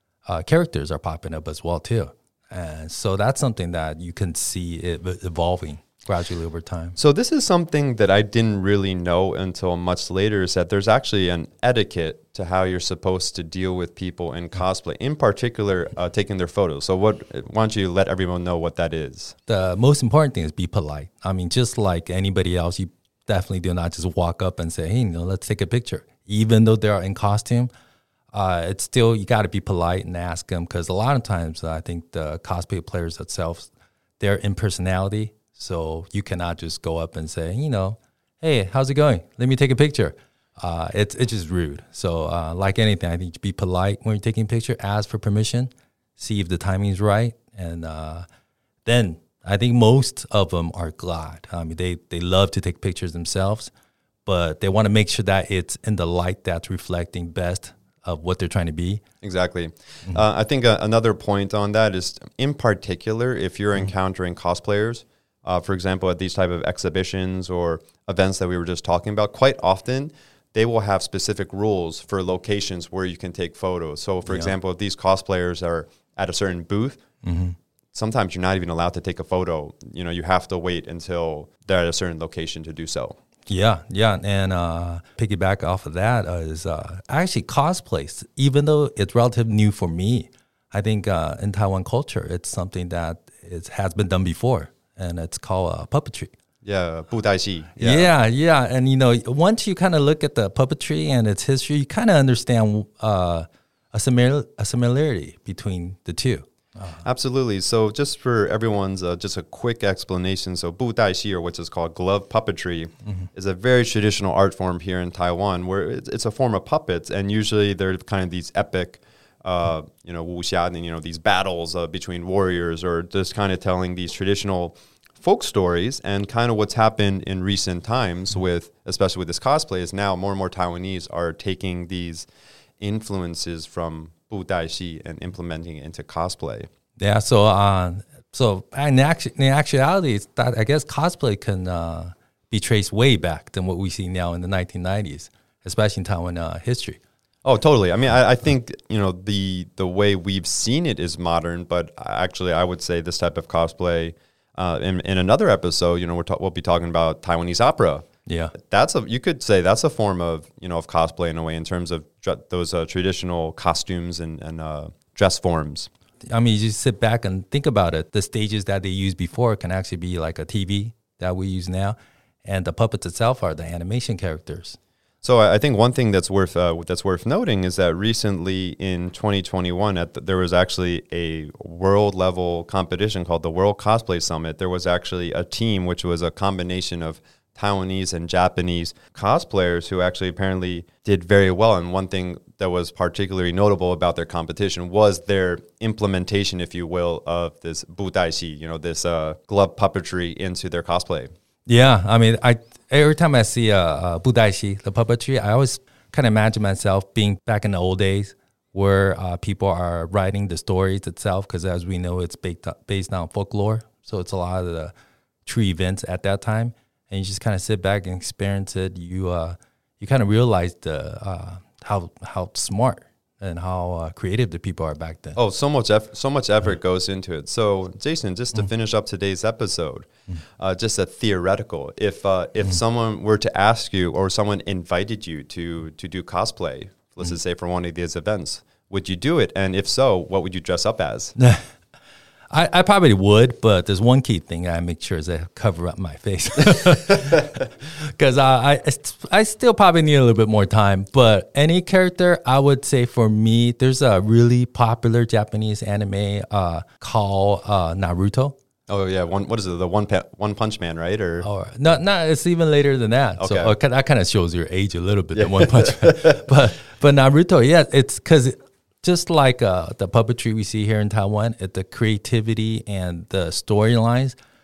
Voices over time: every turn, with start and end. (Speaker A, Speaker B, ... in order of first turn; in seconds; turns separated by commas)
Speaker A: 0.3-7.0, Speaker B: 7.0-19.4, Speaker A: 19.5-27.7, Speaker A: 28.3-48.3, Speaker A: 48.9-53.7, Speaker A: 54.3-59.0, Speaker B: 59.2-77.0, Speaker A: 74.3-74.5, Speaker A: 77.2-77.6, Speaker B: 77.9-83.2, Speaker A: 83.5-96.3, Speaker B: 96.6-98.1, Speaker A: 97.8-107.0, Speaker B: 107.0-132.3, Speaker B: 132.8-136.7, Speaker A: 137.0-147.0, Speaker B: 147.4-165.9, Speaker A: 158.3-158.5, Speaker A: 166.3-174.8, Speaker B: 175.2-201.3, Speaker A: 201.7-214.9, Speaker A: 215.5-225.4, Speaker B: 225.4-230.1, Speaker B: 230.6-241.3, Speaker A: 241.4-241.6, Speaker A: 242.5-258.6, Speaker B: 258.9-261.5, Speaker A: 261.4-274.4, Speaker B: 263.4-263.8, Speaker B: 265.4-266.4